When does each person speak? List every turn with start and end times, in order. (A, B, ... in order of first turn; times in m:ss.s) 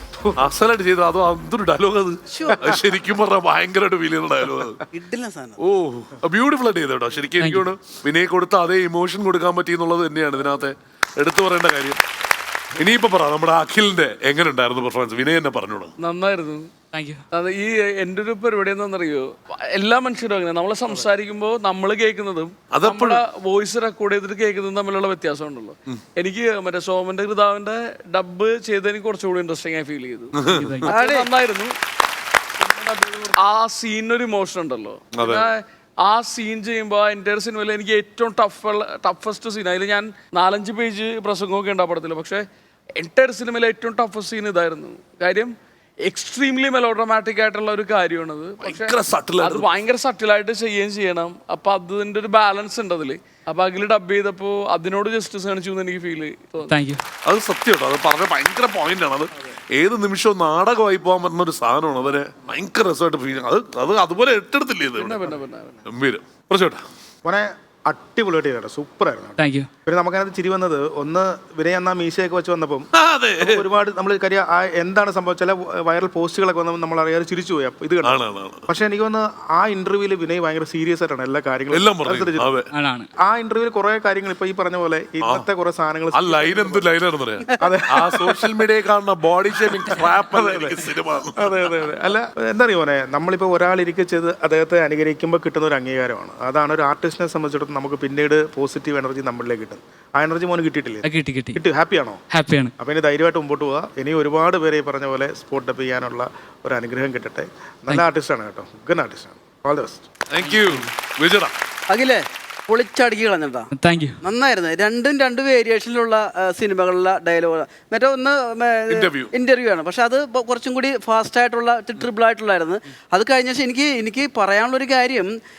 0:00.4-0:04.8 A
0:02.3-0:02.8 B
0:04.9-0:05.6 B
0:05.6-0:12.0 A
0:07.4-0:07.7 C
0:12.8-0:15.9 A
0:16.0-0:16.7 D
0:16.9-0:17.2 C
0:17.3-0:31.7 D
0:22.7-0:23.2 A
0:30.4-0:30.8 A
0:30.5-0:30.9 C
0:30.8-0:31.3 B
0:32.6-0:42.4 D
0:35.1-0:35.5 A
0:43.0-0:45.5 D
0:46.1-0:56.7 D
0:48.6-0:49.7 A
0:56.7-0:57.0 C
0:57.2-1:05.3 A
1:05.0-1:05.8 D
1:05.8-1:06.8 A
1:07.2-1:12.9 E
1:09.4-1:09.7 C
1:12.9-1:13.6 A
1:13.4-1:22.5 E
1:18.0-1:18.7 A
1:21.7-1:22.6 A
1:22.7-1:23.1 C
1:23.2-1:26.9 E
1:26.1-1:31.4 A
1:27.6-1:28.5 E
1:30.0-1:30.8 E
1:31.4-1:42.2 E
1:41.0-1:41.6 C
1:42.3-1:42.7 C
1:42.8-1:50.0 E
1:50.3-1:51.5 A
1:50.4-1:50.9 C
1:51.9-1:53.7 B
1:53.7-1:54.2 C
1:54.2-2:05.3 B
1:58.9-1:59.3 A